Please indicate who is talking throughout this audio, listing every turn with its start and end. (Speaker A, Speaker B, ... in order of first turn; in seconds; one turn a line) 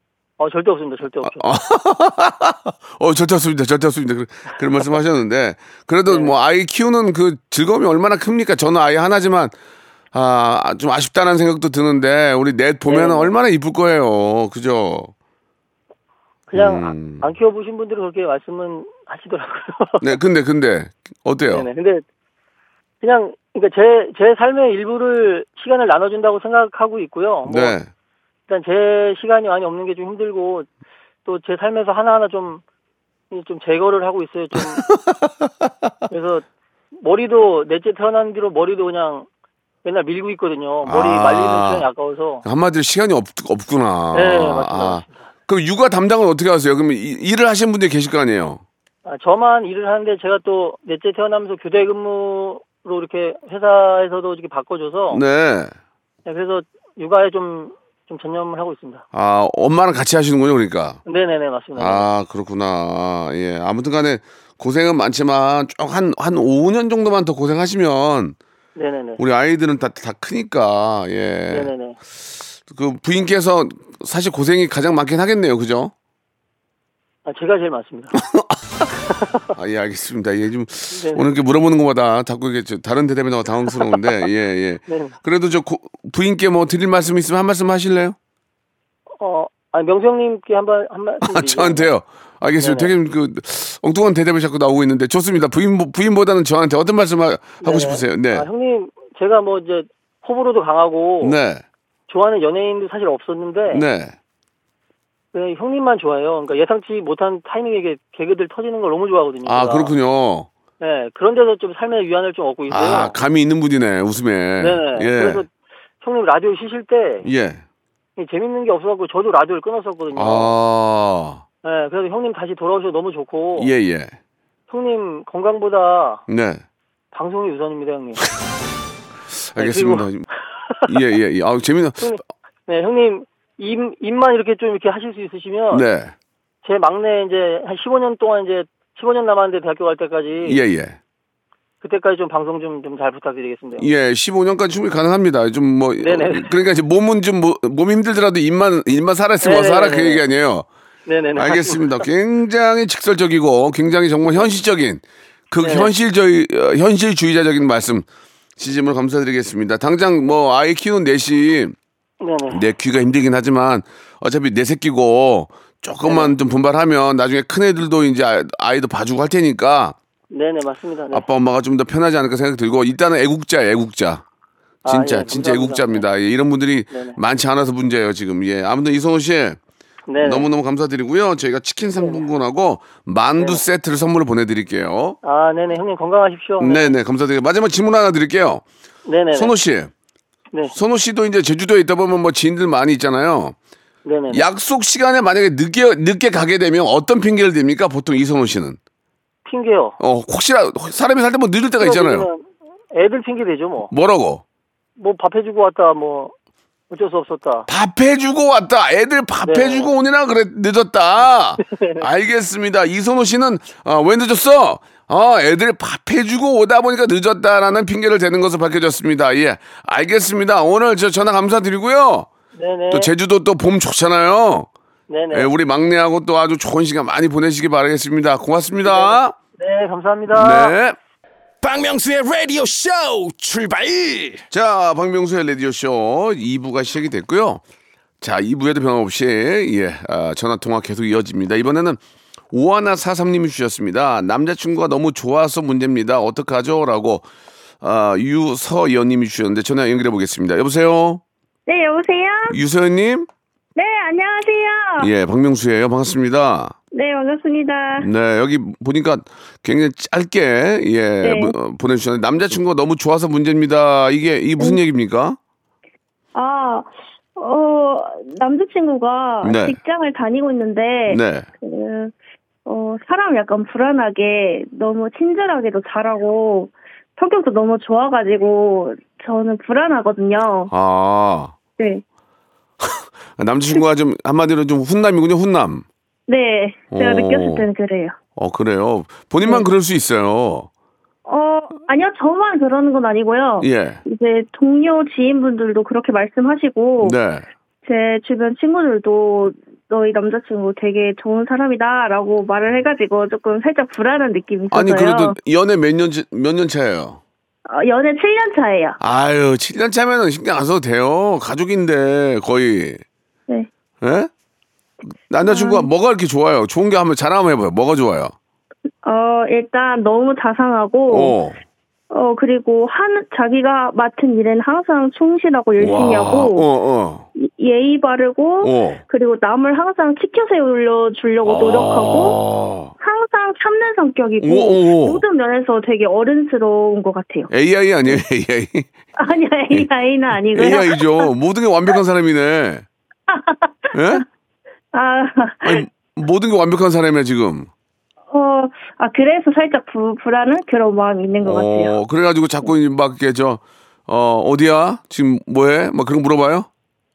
Speaker A: 0.4-1.5
Speaker B: 1.2-9.5
Speaker A: 6.1-6.3
Speaker B: 10.1-15.1
Speaker A: 12.9-13.3
Speaker A: 16.5-20.1
Speaker B: 16.5-17.3
Speaker B: 20.0-21.7
Speaker A: 21.5-22.0
Speaker A: 23.0-27.8
Speaker B: 27.4-27.9
Speaker A: 28.5-30.7
Speaker A: 31.2-32.6
Speaker A: 33.3-34.8
Speaker B: 34.6-35.9
Speaker A: 36.1-36.4
Speaker A: 37.0-39.3
Speaker A: 39.8-42.4
Speaker B: 40.8-41.9
Speaker B: 42.4-48.6
Speaker A: 44.1-45.3
Speaker A: 49.0-55.2
Speaker B: 55.1-55.7
Speaker A: 56.2-59.0
Speaker B: 59.1-61.0
Speaker A: 61.0-62.1
Speaker B: 61.8-68.3
Speaker A: 68.8-69.2
Speaker B: 69.2-71.7
Speaker A: 71.5-72.0
Speaker B: 72.6-75.9
Speaker A: 77.2-78.1
Speaker B: 78.2-78.9
Speaker A: 79.1-79.5
Speaker B: 79.5-88.2
Speaker A: 80.9-81.2
Speaker A: 84.9-85.1
Speaker A: 89.2-91.9
Speaker B: 91.2-98.5
Speaker A: 92.6-92.9
Speaker A: 97.6-101.4
Speaker B: 101.2-101.6
Speaker A: 102.1-103.8
Speaker B: 103.7-104.2
Speaker A: 105.3-109.9
Speaker B: 109.5-110.5
Speaker A: 110.8-113.2
Speaker B: 112.7-115.4
Speaker A: 114.6-115.5
Speaker A: 116.0-117.3
Speaker B: 117.2-117.6
Speaker A: 118.2-120.5
Speaker B: 120.1-121.4
Speaker A: 121.6-123.7
Speaker B: 123.5-124.2
Speaker A: 124.7-126.2
Speaker B: 126.3-126.6
Speaker A: 127.1-128.3
Speaker B: 129.5-130.2
Speaker A: 129.6-130.1
Speaker B: 130.8-132.2
Speaker A: 132.0-135.8
Speaker B: 135.7-136.1
Speaker A: 136.6-140.6
Speaker B: 140.4-141.0
Speaker A: 141.8-143.9
Speaker B: 143.8-150.7
Speaker A: 146.0-146.5
Speaker A: 149.4-150.2
Speaker A: 151.1-152.0
Speaker B: 151.3-158.1
Speaker A: 155.6-155.9
Speaker B: 158.6-161.8
Speaker A: 162.2-162.6
Speaker B: 162.5-169.9
Speaker A: 166.0-166.3
Speaker A: 170.3-171.2
Speaker B: 171.1-174.2
Speaker A: 174.8-176.0
Speaker B: 174.8-179.6
Speaker A: 176.9-177.2
Speaker A: 180.1-180.5
Speaker B: 180.2-185.2
Speaker A: 182.0-182.2
Speaker A: 185.2-186.9
Speaker B: 186.6-188.6
Speaker A: 189.1-189.5
Speaker B: 189.3-189.9
Speaker B: 190.7-193.5
Speaker A: 194.1-194.4
Speaker B: 194.3-198.8
Speaker A: 199.4-200.0
Speaker B: 200.0-202.3
Speaker A: 201.8-203.9
Speaker B: 203.9-204.4
Speaker A: 205.0-206.3
Speaker A: 206.9-207.7
Speaker B: 207.7-222.3
Speaker A: 209.4-209.9
Speaker A: 211.6-212.1
Speaker A: 222.5-223.1
Speaker B: 222.9-224.7
Speaker A: 225.1-225.5
Speaker B: 225.3-229.3
Speaker A: 228.8-230.7
Speaker B: 230.3-231.0
Speaker C: 231.6-234.4
Speaker B: 234.5-237.6
Speaker B: 238.2-242.0
Speaker B: 242.5-247.3
Speaker B: 247.8-251.2
Speaker D: 251.7-252.6
Speaker B: 252.5-253.3
Speaker D: 253.8-255.1
Speaker B: 255.0-256.7
Speaker D: 256.9-258.1
Speaker B: 258.0-265.4
Speaker D: 261.2-261.5
Speaker D: 266.3-272.1
Speaker B: 269.4-269.8
Speaker B: 271.1-271.5
Speaker D: 272.6-280.7
Speaker B: 280.7-281.5
Speaker B: 282.8-285.8
Speaker D: 286.3-288.1
Speaker B: 286.9-287.7
Speaker B: 288.4-290.7
Speaker D: 291.2-297.1
Speaker B: 293.6-294.0
Speaker B: 297.0-297.4
Speaker D: 297.8-305.4
Speaker B: 304.7-307.2
Speaker D: 307.6-309.0
Speaker B: 309.0-313.0
Speaker B: 314.0-314.3
Speaker B: 315.3-318.3
Speaker D: 315.4-315.9
Speaker D: 319.0-321.3
Speaker B: 321.1-321.6
Speaker D: 322.1-326.6
Speaker B: 325.8-327.3
Speaker D: 327.4-332.4
Speaker B: 328.6-329.0
Speaker B: 331.4-332.9
Speaker D: 333.0-337.5
Speaker B: 334.4-335.2
Speaker B: 337.5-338.9
Speaker D: 339.2-341.3
Speaker B: 340.5-342.9
Speaker D: 343.3-344.2
Speaker B: 343.9-344.2
Speaker D: 344.9-345.8
Speaker B: 345.6-347.7
Speaker D: 348.3-351.9
Speaker B: 351.4-356.7